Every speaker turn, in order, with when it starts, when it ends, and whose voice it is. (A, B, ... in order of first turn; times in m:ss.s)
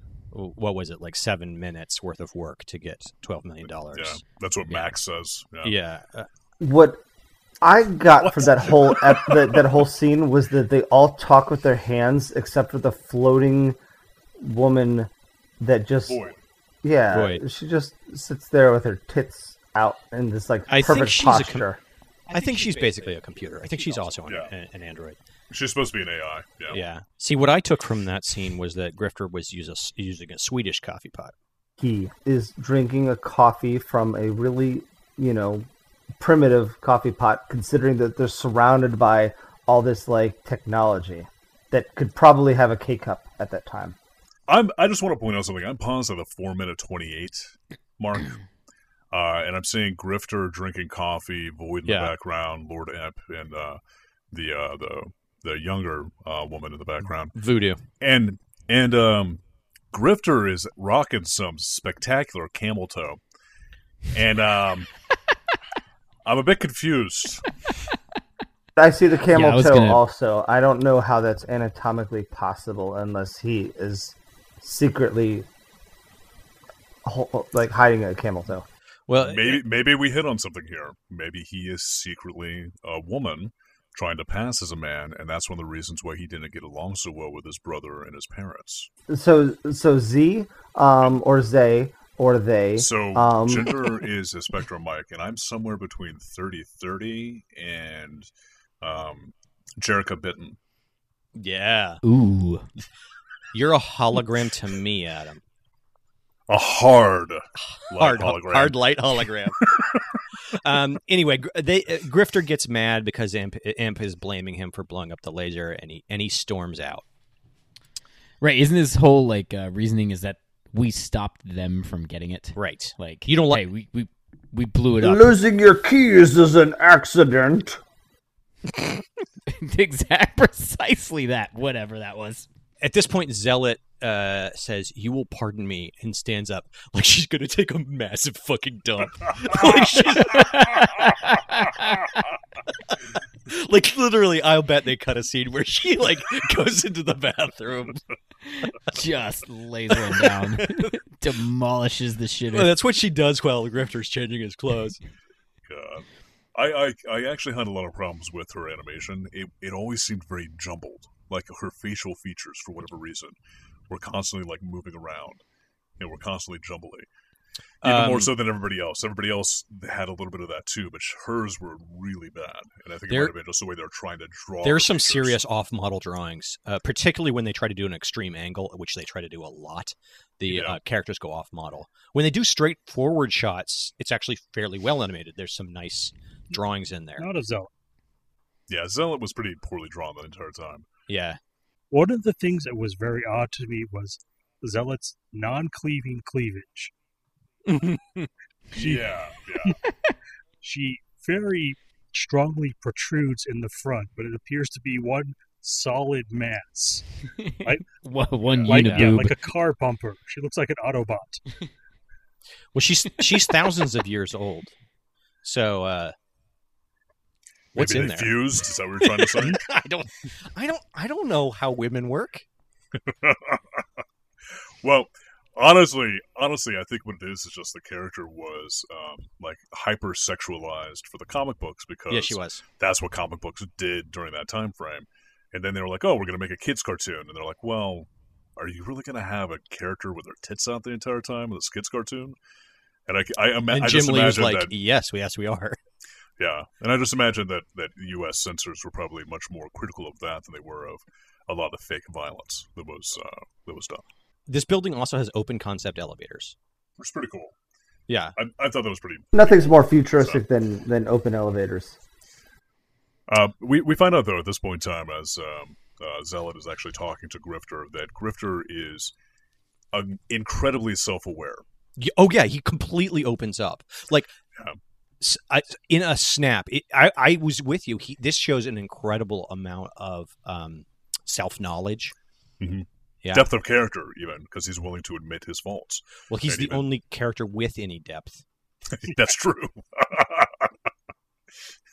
0:00.3-0:04.9 A
0:03.9-0:05.8 B
0:05.6-0:06.3 A
0:06.6-0:07.0 C
0:07.6-0:13.8 C
0:08.2-0:09.6 B
0:14.4-0:16.2 C
0:16.1-0:16.4 B
0:16.8-0:21.8 C
0:17.1-0:17.4 A
0:20.7-0:21.7 A
0:22.3-0:25.2 A
0:25.5-0:26.8 B
0:26.7-0:31.3 A
0:31.8-0:35.7 C
0:36.2-0:44.0 C
0:44.5-0:48.4 B
0:49.1-0:53.8 B
0:51.9-0:52.1 A
0:54.3-0:57.4 B
0:57.3-0:57.8 A
0:58.0-0:59.4 B
0:59.9-1:03.2 B
1:04.1-1:04.9 B
1:06.2-1:07.5 B
1:08.8-1:15.5 C
1:09.3-1:10.0 D
1:17.0-1:18.7 C
1:19.1-1:19.6 A
1:19.2-1:28.9 B
1:29.1-1:33.9 C
1:32.8-1:38.3 B
1:38.8-1:40.6 B
1:41.4-1:42.0 A
1:42.0-1:42.7 D
1:43.5-1:45.4 A
1:46.5-1:48.8 B
1:47.6-1:49.7 A
1:49.6-1:50.0 B
1:50.5-1:57.0 A
1:58.4-2:05.3 D
2:02.6-2:03.6 A
2:05.0-2:07.8 C
2:09.5-2:12.5 D
2:12.8-2:21.0 A
2:20.2-2:22.2 D
2:22.9-2:28.0 A
2:28.5-2:32.7 D
2:30.1-2:30.9 A
2:32.5-2:35.0 A
2:35.7-2:43.4 B
2:43.9-2:45.4 B
2:46.0-2:47.1 B
2:47.8-2:48.3 A
2:47.8-2:55.4 B
2:53.1-2:53.3 A
2:54.6-3:07.3 A
3:00.5-3:00.8 B
3:07.2-3:07.7 E
3:08.7-3:10.9 B
3:11.1-3:11.4 A
3:11.9-3:16.9 E
3:17.7-3:18.3 A
3:18.7-3:19.8 B
3:18.8-3:19.0 E
3:20.6-3:27.1 E
3:27.4-3:29.4 D
3:28.7-3:31.4 E
3:28.7-3:29.2 A
3:32.8-3:34.7 A
3:35.4-3:36.2 A
3:37.8-3:38.5 A
3:37.8-3:39.7 B
3:39.0-3:42.5 A
3:43.1-3:43.8 B
3:44.8-4:02.4 B
3:52.1-3:52.6 A
4:03.1-4:04.7 B
4:03.7-4:05.8 A
4:06.4-4:14.0 B
4:14.5-4:16.6 A
4:17.0-4:17.5 B
4:18.1-4:18.4 A
4:18.4-4:20.4 B
4:19.3-4:22.0 C
4:23.3-4:29.1 B
4:29.9-4:31.6 B
4:32.0-4:34.3 A
4:35.2-4:42.2 A
4:42.6-4:46.9 B
4:46.3-4:48.4 A
4:48.9-4:50.7 B